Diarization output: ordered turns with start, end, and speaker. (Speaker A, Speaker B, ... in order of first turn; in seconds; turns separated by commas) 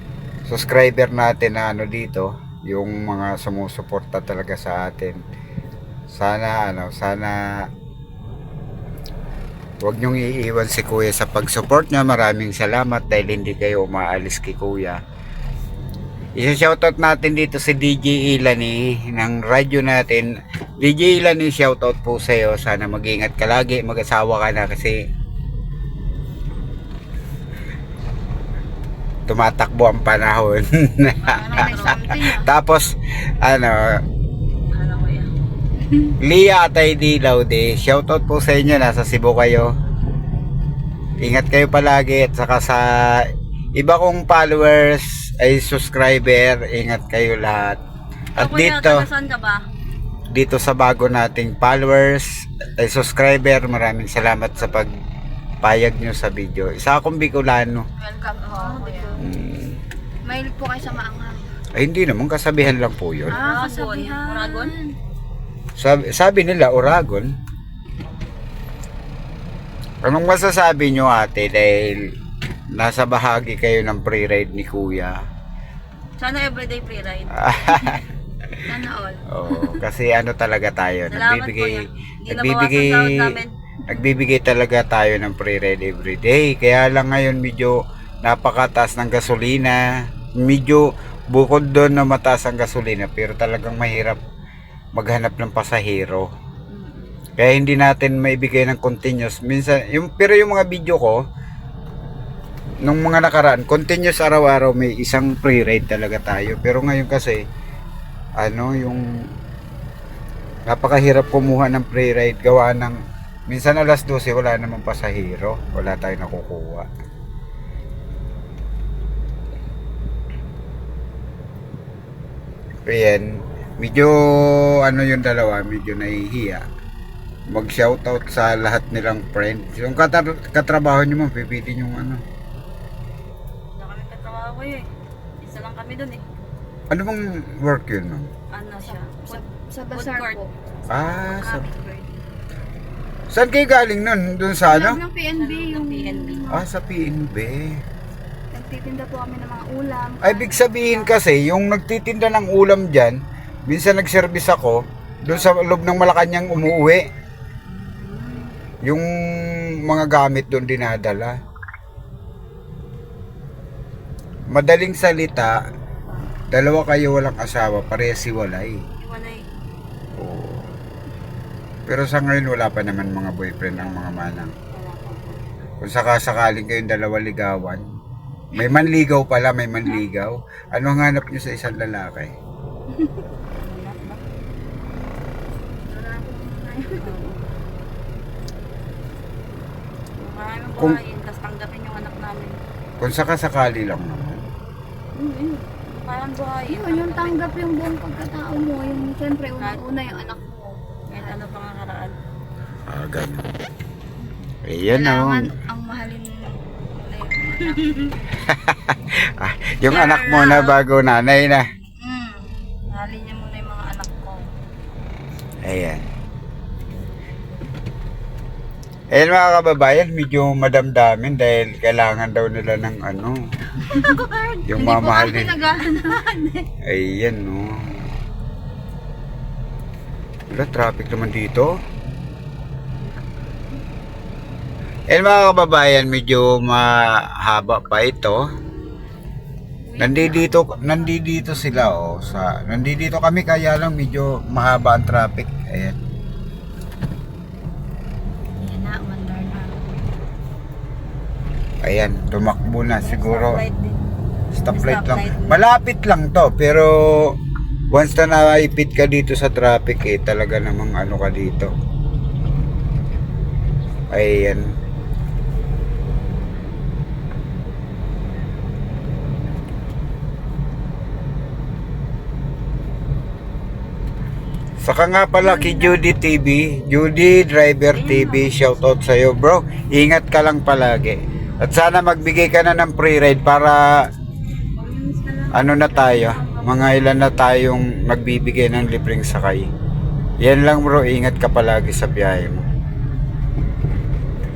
Speaker A: 0.5-5.2, Speaker A: 6.1-7.4, Speaker A: 9.8-15.0, Speaker A: 16.4-25.0, Speaker A: 29.3-34.0, Speaker B: 31.2-32.0, Speaker C: 31.3-32.5, Speaker B: 34.7-35.3, Speaker A: 36.2-39.7, Speaker A: 41.2-47.8, Speaker A: 48.4-49.0, Speaker B: 48.4-49.6, Speaker A: 50.3-54.9, Speaker A: 55.6-57.9, Speaker C: 58.0-59.2, Speaker B: 58.4-59.2, Speaker A: 59.2-59.7, Speaker C: 60.2-61.4, Speaker A: 61.8-63.4, Speaker C: 63.3-64.9, Speaker B: 63.3-64.7, Speaker A: 65.8-67.3, Speaker A: 70.0-72.1, Speaker A: 72.7-75.2, Speaker B: 76.2-78.0, Speaker A: 77.4-78.0, Speaker C: 78.6-79.7, Speaker A: 79.3-83.3, Speaker B: 81.1-83.5, Speaker A: 83.9-89.8, Speaker A: 90.4-94.2, Speaker A: 95.0-96.3, Speaker B: 96.7-97.1, Speaker A: 97.4-101.2, Speaker A: 102.8-107.4, Speaker A: 108.4-109.0, Speaker A: 110.7-116.9, Speaker A: 122.8-123.3, Speaker A: 123.8-126.6, Speaker A: 127.5-132.2, Speaker B: 133.7-134.8, Speaker B: 135.4-136.2, Speaker A: 136.9-138.3, Speaker B: 138.5-139.4, Speaker C: 138.8-140.5, Speaker B: 139.9-140.4, Speaker A: 140.9-141.6, Speaker C: 141.3-142.1, Speaker A: 143.3-145.0, Speaker C: 144.7-146.6, Speaker B: 145.3-146.6, Speaker A: 146.5-147.7, Speaker C: 148.5-151.1, Speaker A: 150.2-157.0, Speaker B: 157.8-158.4, Speaker A: 158.8-161.3, Speaker A: 164.5-165.6, Speaker A: 166.5-168.8, Speaker B: 169.0-169.4, Speaker A: 170.2-170.7, Speaker A: 171.9-174.5, Speaker B: 173.8-174.2, Speaker B: 174.7-175.4, Speaker A: 175.8-177.8, Speaker A: 178.5-182.3, Speaker B: 178.6-178.8, Speaker B: 183.6-184.2, Speaker C: 185.9-187.1, Speaker B: 186.8-187.5, Speaker B: 190.2-192.6, Speaker A: 193.0-194.4, Speaker B: 195.1-197.6, Speaker C: 196.7-201.4, Speaker B: 199.6-199.9, Speaker B: 201.1-202.1, Speaker A: 202.9-203.5, Speaker A: 204.7-205.5, Speaker C: 204.9-207.8, Speaker B: 207.6-208.1, Speaker A: 208.5-211.6, Speaker B: 209.9-210.8, Speaker C: 212.0-214.4, Speaker A: 215.6-216.0, Speaker A: 219.1-223.3, Speaker C: 223.8-226.6, Speaker B: 224.0-224.5, Speaker A: 224.7-225.5, Speaker A: 226.8-228.0, Speaker A: 230.5-231.7, Speaker A: 235.1-238.4, Speaker B: 239.9-240.9, Speaker A: 240.0-245.9, Speaker C: 240.3-241.2, Speaker C: 248.6-250.0, Speaker A: 251.8-253.6, Speaker B: 253.0-254.0, Speaker A: 254.5-257.4, Speaker B: 254.7-255.6, Speaker A: 257.9-261.7, Speaker A: 264.1-264.7, Speaker A: 274.8-283.9, Speaker B: 275.4-276.0, Speaker B: 277.9-278.8, Speaker B: 284.8-287.2, Speaker A: 285.5-289.7, Speaker A: 290.4-292.6